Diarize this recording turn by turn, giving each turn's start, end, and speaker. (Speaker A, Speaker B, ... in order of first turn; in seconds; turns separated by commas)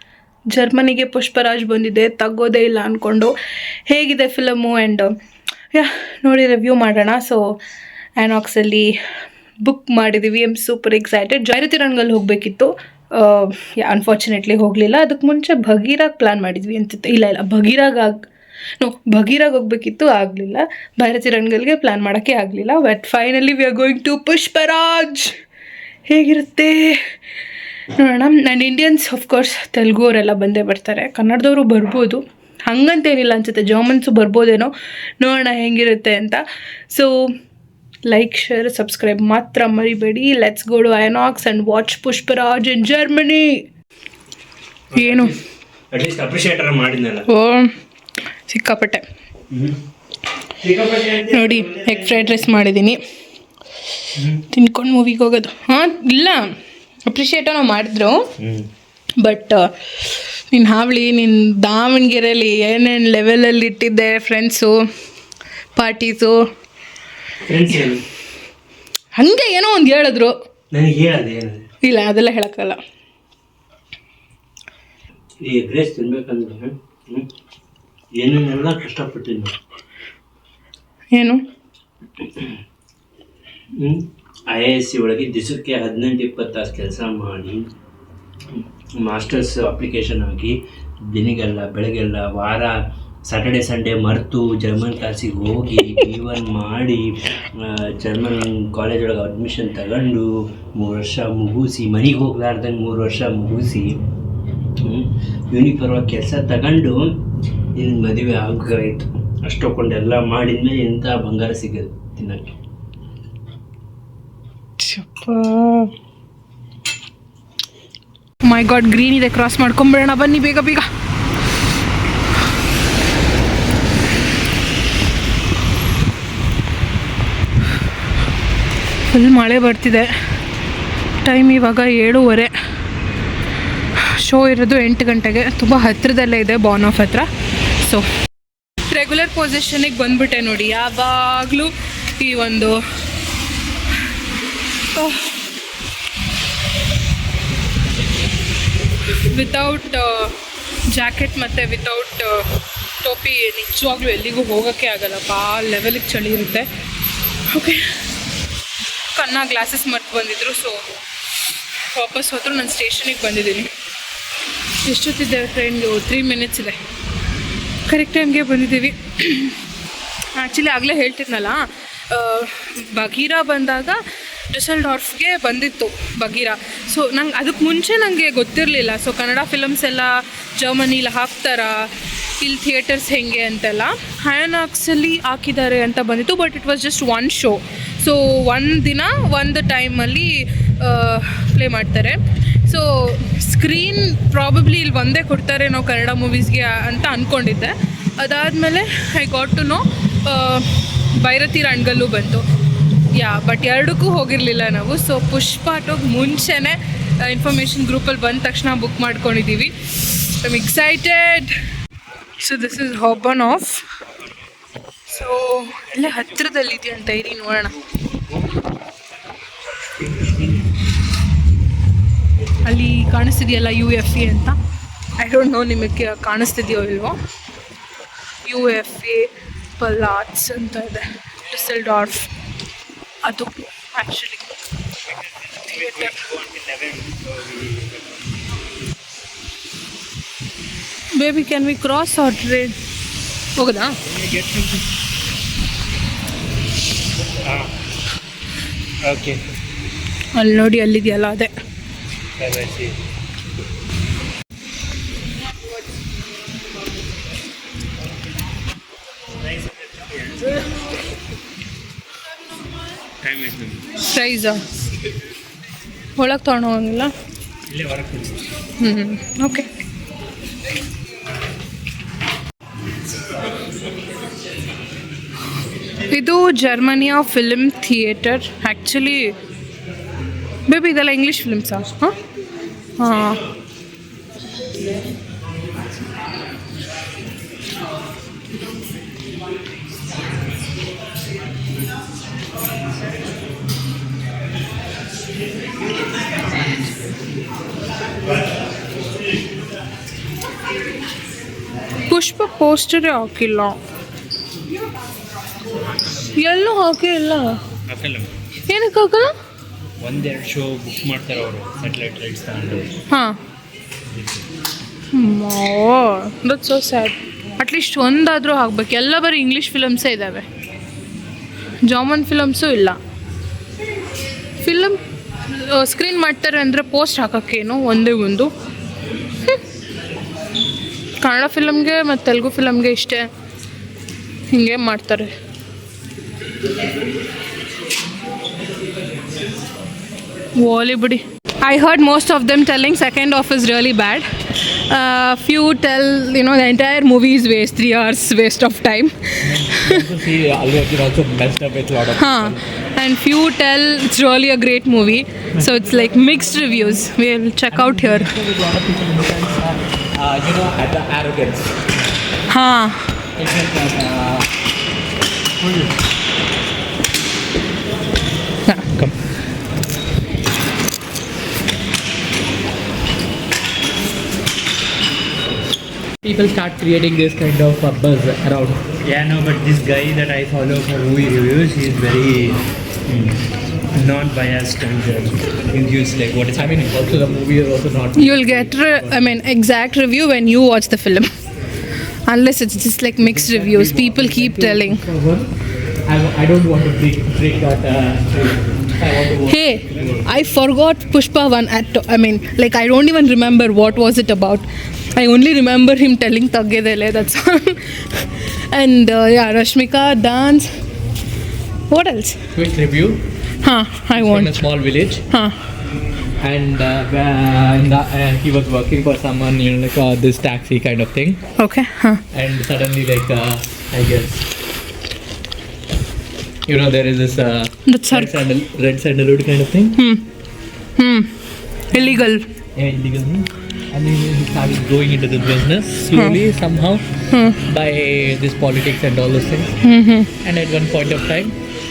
Speaker A: 0.5-3.3, Speaker A: 3.9-5.1, Speaker A: 5.7-7.6, Speaker A: 8.2-9.0, Speaker A: 9.6-18.3, Speaker A: 18.8-25.3, Speaker A: 26.1-27.0, Speaker A: 27.9-37.1, Speaker A: 38.1-43.6, Speaker A: 44.9-45.3, Speaker B: 44.9-45.4, Speaker B: 45.9-47.3, Speaker A: 47.3-47.7, Speaker A: 48.5-49.0, Speaker B: 49.5-49.8, Speaker B: 50.6-51.9, Speaker A: 51.2-53.0, Speaker B: 54.2-54.4, Speaker A: 54.5-56.5, Speaker A: 57.1-58.3, Speaker B: 58.4-58.7, Speaker A: 59.2-64.8, Speaker A: 65.8-66.4, Speaker B: 67.5-68.0, Speaker A: 69.2-70.3, Speaker B: 70.7-71.7, Speaker A: 71.8-72.8, Speaker B: 75.4-77.3, Speaker B: 78.2-79.5, Speaker A: 81.1-81.4, Speaker B: 83.8-87.7, Speaker B: 88.6-90.5, Speaker B: 91.1-97.1, Speaker B: 97.6-103.9, Speaker B: 104.8-107.0, Speaker B: 107.8-112.5, Speaker A: 114.8-115.9, Speaker A: 118.4-120.9, Speaker A: 129.1-130.1, Speaker A: 131.2-132.5, Speaker A: 134.0-137.3, Speaker A: 137.8-138.1, Speaker A: 138.9-142.8, Speaker A: 144.9-145.4, Speaker A: 149.1-150.4, Speaker A: 150.9-152.5, Speaker A: 153.0-156.7, Speaker A: 157.5-157.9, Speaker A: 159.1-160.9, Speaker A: 161.9-163.7, Speaker A: 164.8-166.8, Speaker A: 167.9-169.6, Speaker A: 170.3-202.4, Speaker A: 203.1-211.5, Speaker A: 212.4-213.8, Speaker A: 215.1-217.8, Speaker B: 220.0-220.6, Speaker A: 222.6-224.6, Speaker A: 225.2-227.2, Speaker A: 228.4-232.3, Speaker A: 233.2-234.6, Speaker A: 235.7-236.2, Speaker B: 236.2-237.9, Speaker A: 241.2-242.7, Speaker A: 243.6-243.9, Speaker B: 244.1-244.8, Speaker B: 247.4-247.7, Speaker B: 249.1-249.4, Speaker A: 250.3-251.5, Speaker B: 252.4-253.0, Speaker B: 259.5-260.5, Speaker B: 263.2-263.8, Speaker A: 264.0-264.6, Speaker A: 266.2-267.1, Speaker B: 267.7-268.4, Speaker A: 268.8-269.7, Speaker A: 276.1-279.3, Speaker A: 280.7-282.1, Speaker A: 283.0-283.4, Speaker A: 302.1-303.8, Speaker A: 306.3-307.6, Speaker B: 307.9-308.3, Speaker A: 308.7-309.3, Speaker B: 310.0-312.9, Speaker A: 313.1-313.4, Speaker B: 314.1-314.5, Speaker A: 315.1-320.5, Speaker A: 321.8-323.0, Speaker A: 324.6-328.5, Speaker A: 331.2-333.3, Speaker A: 334.5-335.3, Speaker A: 340.6-350.1, Speaker C: 349.4-352.6, Speaker A: 352.2-358.3, Speaker C: 357.7-361.7, Speaker A: 362.5-363.1, Speaker C: 363.4-364.5, Speaker C: 376.2-378.8, Speaker B: 379.0-383.4, Speaker B: 383.9-387.1, Speaker C: 386.6-389.0, Speaker A: 388.2-391.3, Speaker A: 392.3-395.0, Speaker C: 393.2-395.5, Speaker C: 396.1-400.2, Speaker A: 399.4-410.7, Speaker A: 411.9-412.4, Speaker C: 412.5-413.2, Speaker A: 413.6-414.6, Speaker C: 414.1-415.2, Speaker C: 416.4-421.4, Speaker A: 421.6-422.2, Speaker C: 422.3-424.4, Speaker C: 426.7-430.0, Speaker A: 427.9-428.4, Speaker A: 430.0-430.2, Speaker A: 431.0-431.4, Speaker A: 431.9-432.4, Speaker C: 431.9-432.2, Speaker C: 432.8-437.1, Speaker A: 436.1-436.4, Speaker A: 437.3-437.6, Speaker C: 437.6-439.7, Speaker A: 439.8-440.3, Speaker C: 440.4-441.5